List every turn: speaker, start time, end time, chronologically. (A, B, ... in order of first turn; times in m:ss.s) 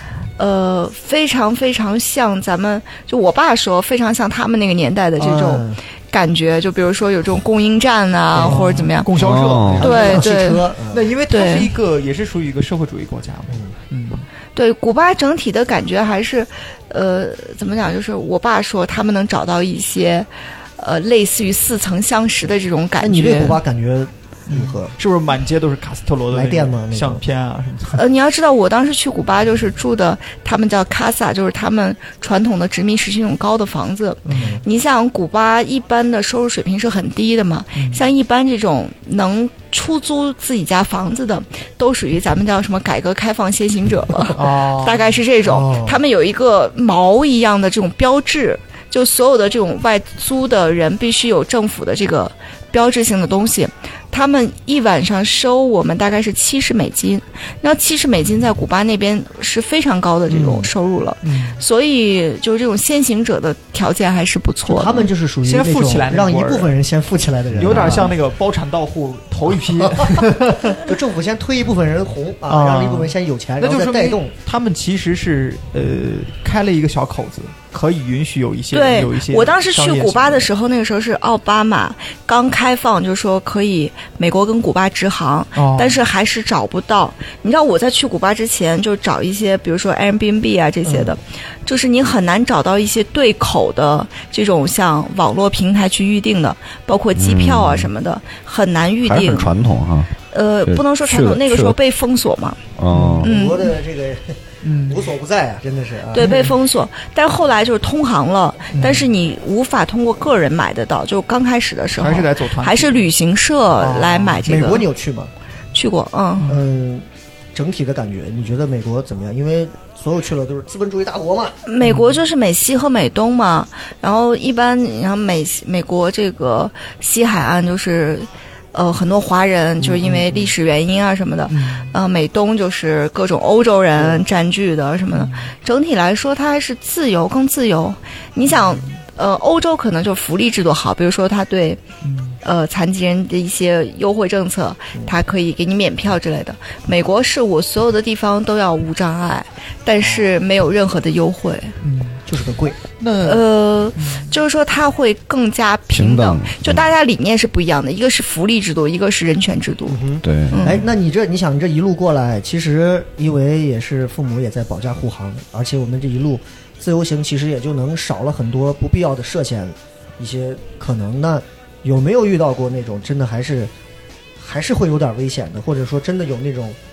0:00.4-0:09.1 A
0:05.2-0:05.8 B
0:08.3-0:08.8 B
0:08.3-0:10.3 C
0:09.1-0:09.9 D
0:09.8-0:11.1 B
0:09.8-0:10.6 A
0:10.9-0:14.3 C
0:11.3-0:11.7 A
0:13.5-0:13.7 B
0:14.5-0:23.6 A
0:23.0-0:24.9 B
0:24.5-0:28.0 C
0:26.3-0:27.2 B
0:27.9-1:05.1 A
0:34.2-0:34.6 C
0:34.3-0:34.6 B
0:37.8-0:38.0 C
0:44.3-0:45.2 C
0:45.4-0:46.0 B
1:00.3-1:00.7 B
1:01.2-1:01.6 C
1:04.7-1:08.1 B
1:05.4-1:06.7 C
1:07.6-1:10.8 C
1:09.8-1:14.3 B
1:12.5-1:20.5 C
1:18.7-1:39.5 A
1:25.5-1:26.0 C
1:30.8-1:31.1 B
1:37.2-1:37.9 D
1:39.0-1:40.1 D
1:40.3-1:42.6 A
1:40.6-1:41.8 D
1:42.8-1:43.3 D
1:42.9-1:43.3 C
1:43.2-1:46.5 B
1:43.2-1:43.7 A
1:44.6-1:45.0 C
1:46.1-1:54.9 A
1:48.7-1:49.1 C
1:51.9-1:53.1 C
1:53.8-1:55.3 B
1:53.9-1:54.4 C
1:55.7-1:56.5 A
1:56.4-2:01.6 B
2:01.6-2:21.8 A
2:01.8-2:02.1 C
2:09.8-2:10.5 B
2:11.5-2:11.9 C
2:13.9-2:14.2 B
2:15.1-2:15.5 C
2:22.0-2:22.4 C
2:22.4-2:31.8 A
2:31.8-2:32.2 C
2:32.2-2:32.8 B
2:33.0-2:34.3 C
2:33.2-2:40.8 A
2:35.9-2:36.8 D
2:39.9-2:53.7 B
2:40.2-2:40.6 D
2:54.4-2:56.8 B